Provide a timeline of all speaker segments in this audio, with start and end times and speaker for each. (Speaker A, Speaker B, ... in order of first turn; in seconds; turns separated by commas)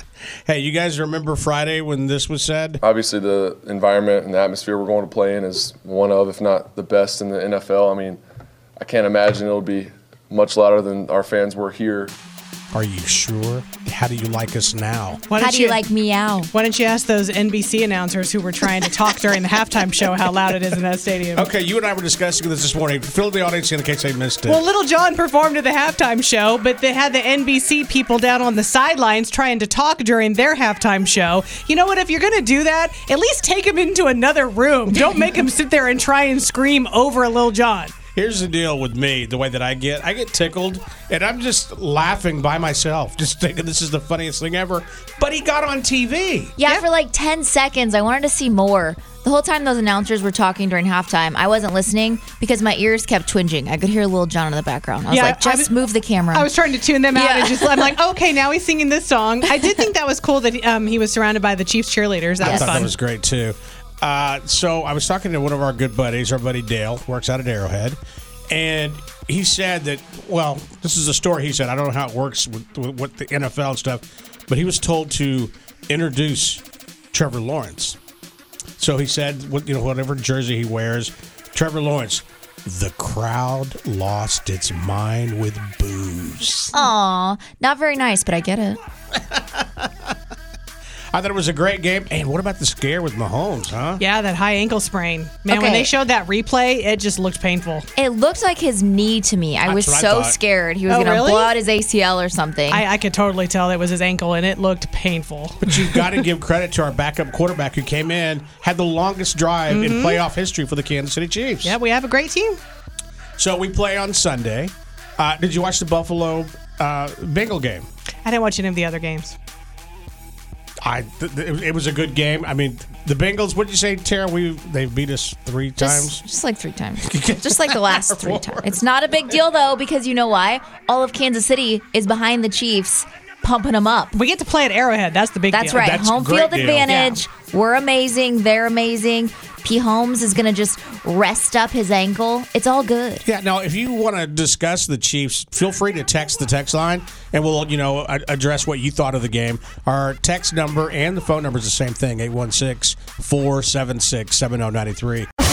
Speaker A: 0.5-2.8, Speaker B: 2.8-8.2, Speaker B: 8.8-12.1, Speaker A: 12.7-15.2, Speaker C: 15.3-15.8, Speaker D: 15.4-16.5, Speaker C: 16.5-21.4, Speaker A: 21.3-24.6, Speaker C: 24.5-37.9, Speaker A: 38.1-46.6, Speaker D: 46.6-56.5, Speaker C: 55.1-55.7, Speaker C: 56.3-62.9, Speaker D: 57.1-57.9, Speaker D: 62.4-62.9, Speaker A: 62.4-68.0, Speaker A: 68.5-78.0, Speaker A: 78.8-86.7, Speaker D: 86.7-88.8, Speaker A: 89.3-89.9, Speaker A: 91.1-94.0, Speaker C: 94.0-97.8, Speaker D: 95.5-96.0, Speaker D: 98.0-102.8, Speaker A: 99.6-100.4, Speaker C: 100.9-101.5, Speaker C: 102.7-105.6, Speaker A: 105.6-111.8, Speaker C: 109.7-110.0, Speaker C: 111.6-112.6, Speaker A: 113.4-117.8, Speaker C: 118.2-119.4, Speaker A: 120.8-126.2, Speaker D: 125.8-134.2, Speaker A: 127.0-128.7, Speaker C: 134.1-135.8, Speaker D: 135.5-143.2, Speaker A: 135.7-137.0, Speaker C: 136.9-137.2, Speaker A: 143.2-155.3